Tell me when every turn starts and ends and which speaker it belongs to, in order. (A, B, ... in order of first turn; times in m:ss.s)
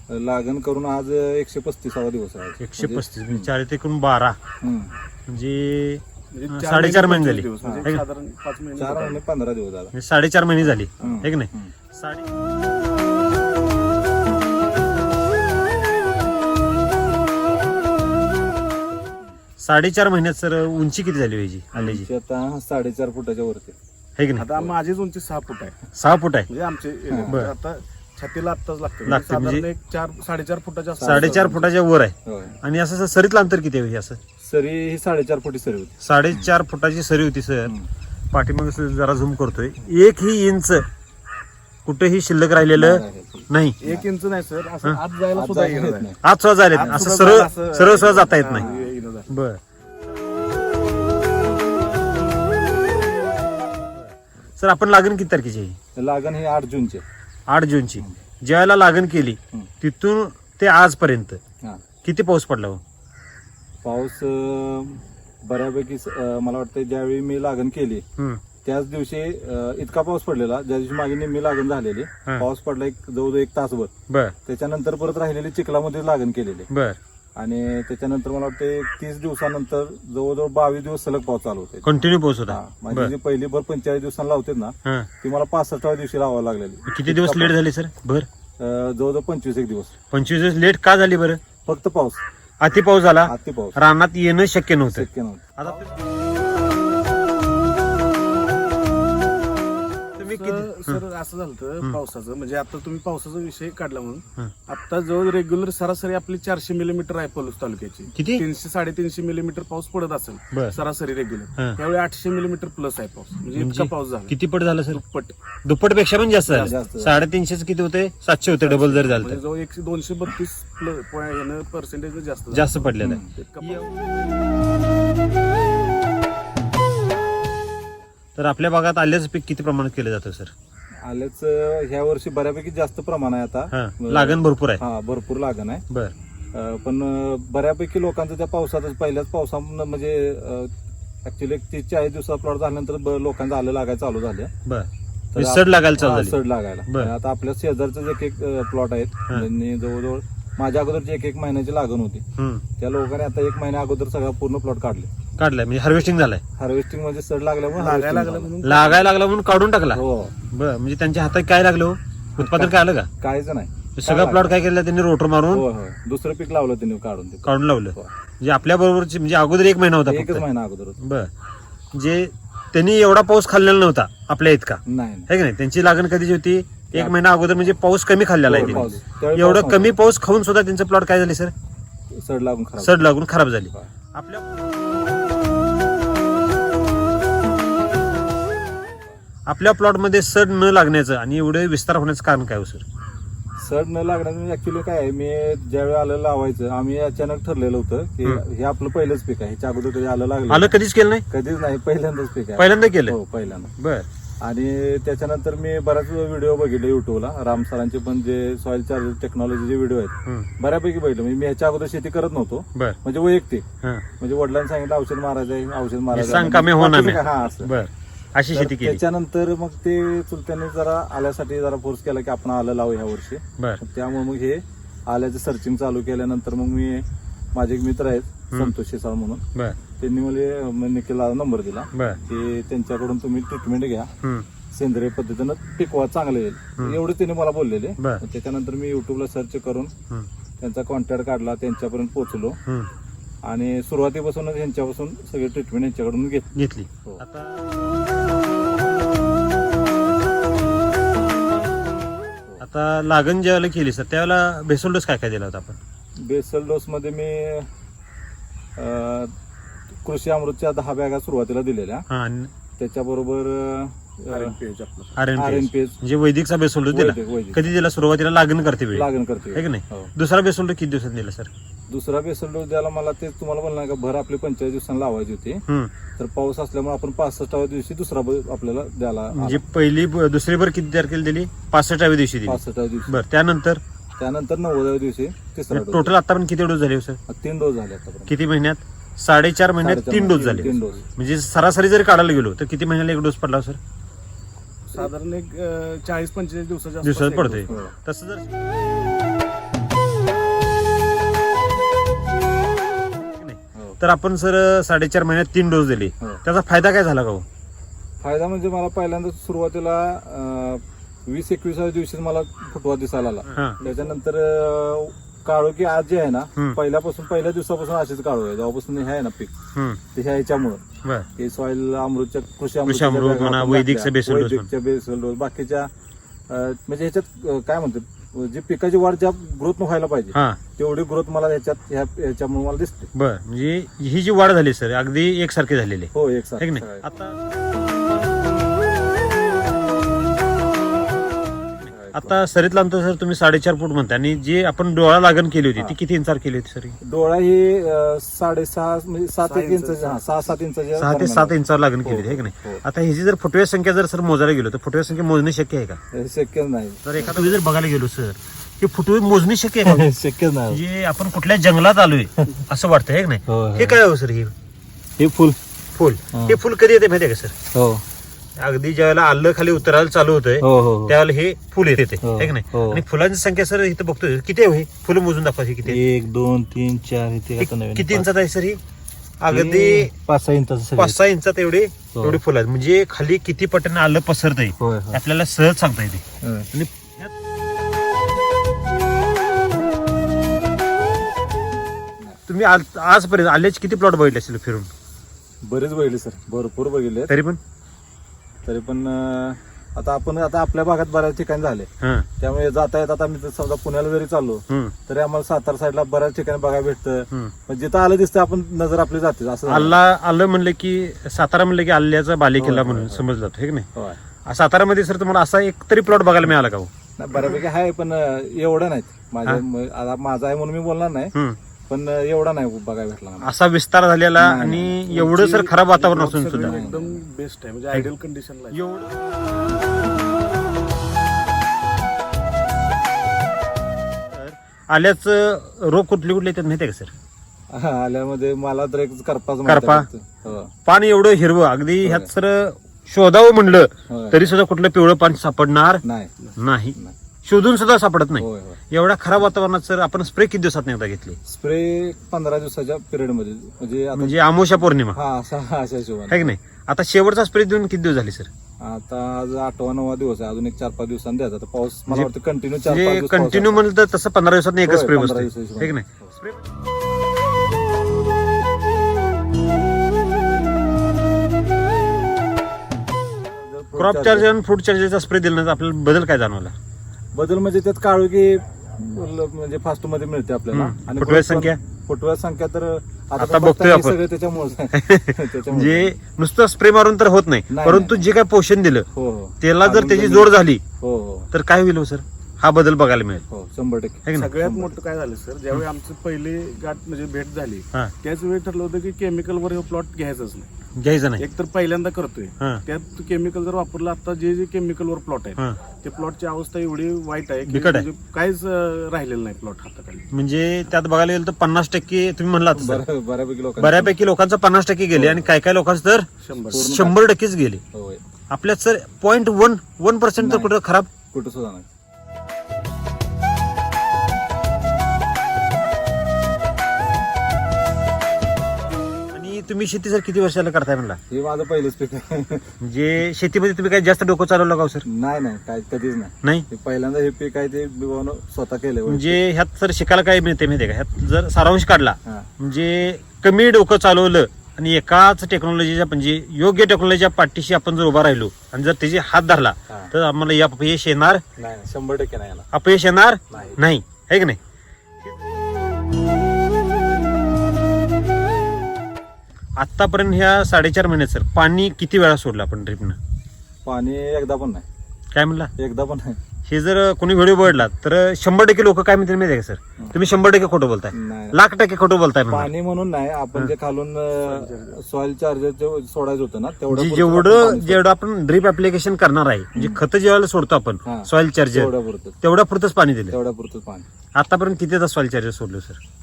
0:00.1-0:03.5 A
0:02.6-0:04.4 B
0:04.6-0:05.0 A
0:05.3-0:08.0 B
0:06.3-0:09.2 C
0:07.6-0:07.9 A
0:08.8-0:09.9 A
0:09.9-0:12.3 B
0:11.0-0:11.7 A
0:19.6-0:22.1 B
0:21.8-0:23.8 A
0:24.2-0:24.5 B
0:24.4-0:25.8 C
0:26.0-0:26.5 B
0:26.5-0:31.7 C
0:27.1-0:27.4 A
0:29.0-0:29.7 B
0:31.0-0:31.5 A
0:31.0-0:34.2 B
0:32.3-0:32.6 A
0:34.4-0:36.5 A
0:36.0-0:37.7 B
0:38.3-0:40.8 B
0:41.9-0:43.8 B
0:42.8-0:44.0 A
0:43.8-0:46.1 C
0:45.3-0:46.2 A
0:46.2-0:48.7 B
0:46.7-0:49.3 C
0:46.8-0:47.1 A
0:48.6-0:48.9 A
0:49.3-0:49.6 B
0:54.0-0:55.8 B
0:56.0-0:57.0 A
0:57.5-1:01.4 B
1:02.0-1:02.8 B
1:03.8-1:08.0 A
1:08.6-1:13.9 A
1:14.1-1:14.4 B
1:14.5-1:16.7 A
1:16.7-1:17.0 B
1:17.4-1:21.9 A
1:21.8-1:23.1 B
1:22.5-1:27.6 A
1:26.9-1:28.3 B
1:28.6-1:29.9 A
1:30.1-1:31.4 B
1:31.6-1:32.2 A
1:32.6-1:35.9 B
1:33.3-1:33.8 A
1:34.9-1:35.5 A
1:40.2-1:41.0 B
1:40.3-1:54.4 C
1:48.2-1:48.4 B
1:53.6-1:55.0 B
1:54.9-1:55.4 C
1:55.6-1:59.4 B
1:56.5-1:57.2 A
1:58.6-2:04.1 C
2:02.5-2:03.9 B
2:03.0-2:03.3 A
2:08.4-2:10.5 B
2:11.0-2:15.8 A
2:13.7-2:14.8 B
2:16.5-2:20.7 A
2:21.2-2:24.5 A
2:24.7-2:26.4 B
2:25.3-2:32.2 A
2:26.9-2:27.1 B
2:32.4-2:32.6 B
2:32.8-2:35.1 A
2:35.4-2:36.4 B
2:36.6-2:38.5 A
2:37.8-2:39.1 C
2:38.6-2:40.0 B
2:39.9-2:40.3 A
2:40.5-2:43.1 B
2:42.4-2:44.6 A
2:44.0-2:45.6 B
2:45.5-2:48.1 A
2:47.4-2:50.4 B
2:50.1-2:51.0 A
2:51.0-2:51.3 B
2:51.9-3:01.5 B
2:54.9-2:55.3 A
2:58.4-3:00.0 A
3:02.2-3:03.0 A
3:02.8-3:04.4 B
3:09.5-3:12.8 B
3:13.6-3:20.8 A
3:20.5-3:21.2 B
3:21.3-3:23.7 A
3:22.6-3:23.2 B
3:23.8-3:24.1 B
3:24.4-3:33.7 A
3:34.2-3:37.7 A
3:36.1-3:39.0 B
3:38.5-3:47.0 A
3:47.6-3:49.4 A
3:50.0-3:54.1 A
3:51.9-3:52.2 B
3:54.7-3:59.9 A
4:00.6-4:02.6 A
4:03.4-4:06.5 A
4:06.6-4:07.6 B
4:12.6-4:15.8 B
4:16.2-4:17.7 A
4:18.8-4:19.3 A
4:20.0-4:22.1 A
4:22.1-4:22.5 B
4:22.8-4:24.6 A
4:24.3-4:25.2 C
4:25.2-4:31.5 B
4:25.4-4:26.0 A
4:26.9-4:27.7 A
4:28.9-4:30.1 A
4:31.9-4:35.6 A
4:36.2-4:39.6 A
4:39.3-4:43.8 B
4:42.4-4:43.2 A
4:44.2-4:46.1 A
4:45.7-4:47.2 B
4:47.3-4:48.4 A
4:48.3-4:53.8 B
4:49.8-4:51.0 A
4:54.9-4:57.7 C
4:57.0-4:58.4 B
4:57.7-4:57.9 A
5:03.2-5:07.5 B
5:03.8-5:04.0 A
5:08.2-5:19.5 A
5:13.8-5:14.2 C
5:19.8-5:20.0 B
5:20.1-5:20.8 A
5:21.4-5:25.9 A
5:22.9-5:24.7 B
5:26.5-5:33.1 A
5:30.3-5:30.6 B
5:33.2-5:37.4 B
5:36.1-5:37.0 A
5:41.9-5:42.4 A
5:42.1-5:47.0 B
5:47.0-5:52.8 A
5:49.4-5:50.2 C
5:51.0-5:56.0 B
5:56.1-5:57.6 A
5:57.0-6:00.1 B
5:59.8-6:00.8 A
6:00.7-6:04.5 B
6:03.5-6:04.0 A
6:05.2-6:05.6 A
6:06.0-6:07.5 B
6:07.7-6:08.0 A
6:08.6-6:16.0 B
6:10.6-6:11.2 A
6:12.2-6:13.0 A
6:15.8-6:18.3 A
6:17.6-6:18.8 B
6:19.4-6:20.1 B
6:19.5-6:21.2 A
6:21.0-6:27.3 B
6:22.1-6:22.4 A
6:24.8-6:25.2 A
6:26.4-6:26.7 A
6:32.5-6:34.9 B
6:35.7-6:37.3 A
6:37.3-6:37.6 B
6:38.6-6:41.9 A
6:42.0-6:42.3 B
6:42.4-6:50.0 A
6:44.7-6:44.9 B
6:49.7-6:53.9 B
6:52.6-6:53.2 A
6:54.5-6:56.9 B
6:57.2-7:01.3 A
7:01.9-7:03.5 A
7:03.4-7:06.8 B
7:04.4-7:05.1 A
7:05.1-7:08.8 C
7:06.6-7:07.2 A
7:08.7-7:09.1 B
7:14.3-7:17.1 B
7:17.7-7:20.7 A
7:19.7-7:20.1 B
7:20.9-7:26.0 B
7:22.0-7:22.3 A
7:24.1-7:24.5 A
7:26.0-7:26.3 A
7:26.6-7:31.4 B
7:28.4-7:28.8 A
7:31.5-7:34.4 A
7:34.2-7:35.2 B
7:35.1-7:36.5 A
7:36.3-7:38.5 B
7:38.8-7:43.8 A
7:42.8-7:46.7 B
7:44.8-7:46.4 A
7:53.4-7:54.5 A
7:54.0-7:56.8 B
7:57.4-8:06.1 A
8:00.7-8:01.8 B
8:03.4-8:04.2 B
8:04.9-8:09.1 B
8:07.7-8:08.3 A
8:09.1-8:11.5 A
8:09.6-8:10.8 B
8:11.5-8:13.5 B
8:13.5-8:15.0 A
8:14.3-8:14.5 B
8:14.3-8:20.7 C
8:21.0-8:21.4 B
8:21.4-8:30.3 C
8:27.7-8:28.1 B
8:30.3-8:33.0 B
8:32.8-8:34.2 A
8:33.8-8:37.8 B
8:35.1-8:35.5 A
8:36.4-8:36.9 C
8:36.7-8:37.2 A
8:37.9-8:38.2 A
8:38.5-8:41.1 B
8:40.4-8:40.7 A
8:41.3-8:41.9 A
8:49.3-8:51.2 B
8:51.3-8:52.7 A
8:52.8-8:55.0 B
8:55.1-8:59.4 A
8:59.1-9:11.4 B
9:09.9-9:10.1 A
9:11.6-9:12.7 A
9:12.7-9:14.6 B
9:13.5-9:13.8 A
9:19.8-9:23.2 B
9:23.8-9:24.8 A
9:25.3-9:25.7 B
9:25.8-9:26.4 A
9:26.7-9:32.7 B
9:31.1-9:31.6 A
9:32.5-9:38.0 A
9:34.4-9:35.0 C
9:36.9-9:41.9 B
9:39.7-9:40.0 A
9:41.0-9:42.4 A
9:42.4-9:43.4 B
9:43.3-9:44.1 A
9:44.4-9:46.0 B